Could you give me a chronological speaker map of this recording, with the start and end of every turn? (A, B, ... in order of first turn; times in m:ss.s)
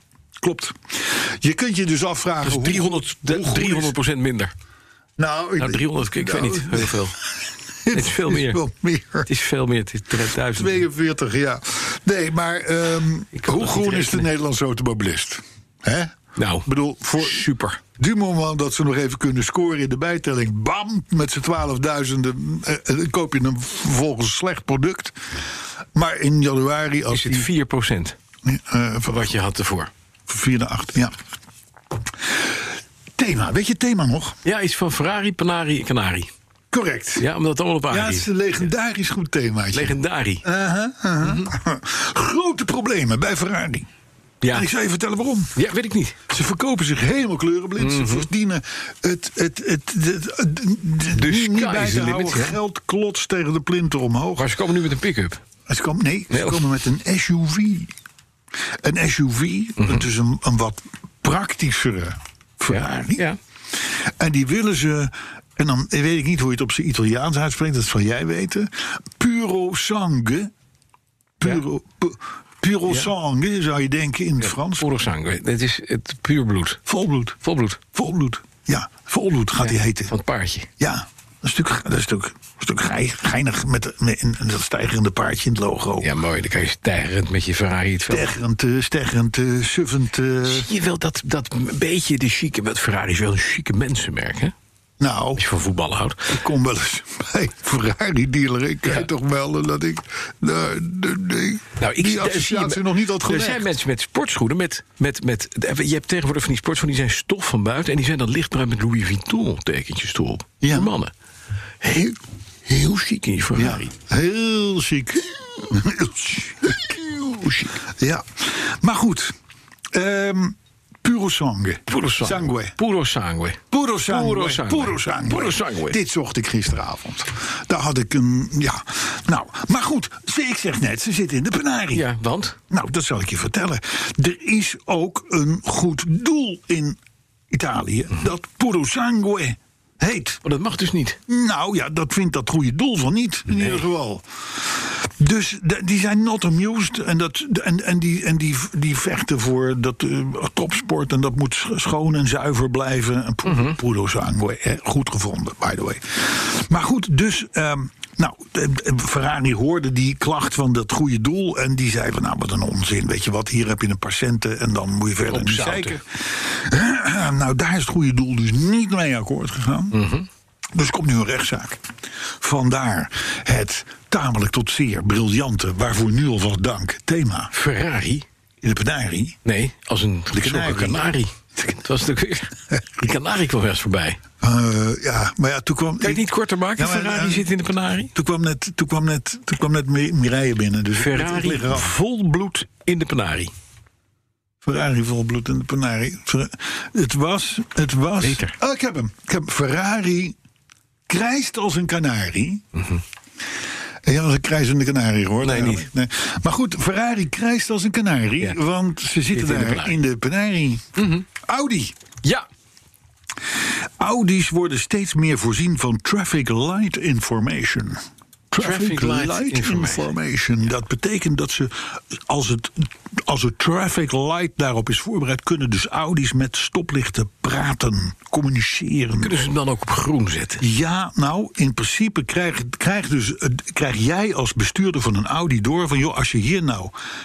0:00.4-0:04.0 A
0:02.4-0:04.5 B
0:05.2-0:07.2 A
0:05.6-0:07.2 B
0:07.8-0:09.3 A
0:07.9-0:08.6 B
0:09.3-0:10.8 B
0:10.5-0:25.2 A
0:13.3-0:14.3 B
0:16.4-0:17.8 B
0:25.9-0:27.5 A
0:27.1-0:28.2 B
0:28.4-0:29.3 A
0:29.0-0:29.9 B
0:30.3-0:31.2 A
0:33.2-0:34.4 A
0:34.4-0:36.3 B
0:36.7-0:37.3 A
0:37.2-0:38.3 B
0:37.9-0:43.9 A
0:39.7-0:40.5 B
0:41.2-0:41.5 B
0:44.4-0:44.7 B
0:44.5-0:45.5 A
0:45.6-0:46.2 B
0:46.3-0:54.5 A
0:47.8-0:48.3 B
0:51.1-0:52.6 B
0:54.4-0:55.4 B
0:55.7-0:57.9 A
0:56.3-0:56.6 B
0:58.8-1:03.2 A
0:59.8-1:00.0 B
1:02.7-1:03.4 B
1:04.0-1:10.5 A
1:11.4-1:14.9 A
1:14.4-1:16.8 B
1:16.9-1:20.1 A
1:17.4-1:17.8 B
1:19.6-1:20.7 B
1:20.8-1:26.1 A
1:26.0-1:28.3 B
1:28.1-1:30.7 A
1:30.5-1:34.5 B
1:35.0-1:35.4 A
1:35.4-1:36.3 B
1:36.3-1:43.7 A
1:41.8-1:51.1 B
1:50.6-1:50.9 A
1:51.8-1:52.2 A
1:52.7-1:53.9 B
1:53.5-1:59.4 A
1:57.2-1:57.8 B
1:59.9-2:02.8 A
2:01.9-2:06.0 B
2:03.7-2:12.1 A
2:11.9-2:12.6 B
2:12.7-2:17.0 A
2:17.5-2:20.4 A
2:20.4-2:21.2 B
2:21.3-2:50.0 A
2:23.5-2:23.8 B
2:33.4-2:33.8 B
2:45.3-2:46.0 B
2:49.9-2:50.3 B
2:50.8-2:51.8 A
2:52.4-2:57.5 A
2:57.5-2:58.2 B
2:58.6-2:59.4 A
2:59.4-3:04.2 B
3:00.3-3:01.1 A
3:04.4-3:06.3 A
3:06.0-3:08.1 B
3:06.8-3:07.5 A
3:08.1-3:11.9 A
3:10.9-3:13.5 B
3:14.6-3:20.4 A
3:18.2-3:18.6 B
3:21.1-3:22.6 A
3:22.7-3:23.0 B
3:24.0-3:32.0 A
3:25.4-3:25.9 B
3:29.3-3:30.0 B
3:31.0-3:31.3 B
3:34.0-3:49.4 A
3:38.6-3:40.1 B
3:49.2-3:50.6 B
3:50.6-3:57.0 A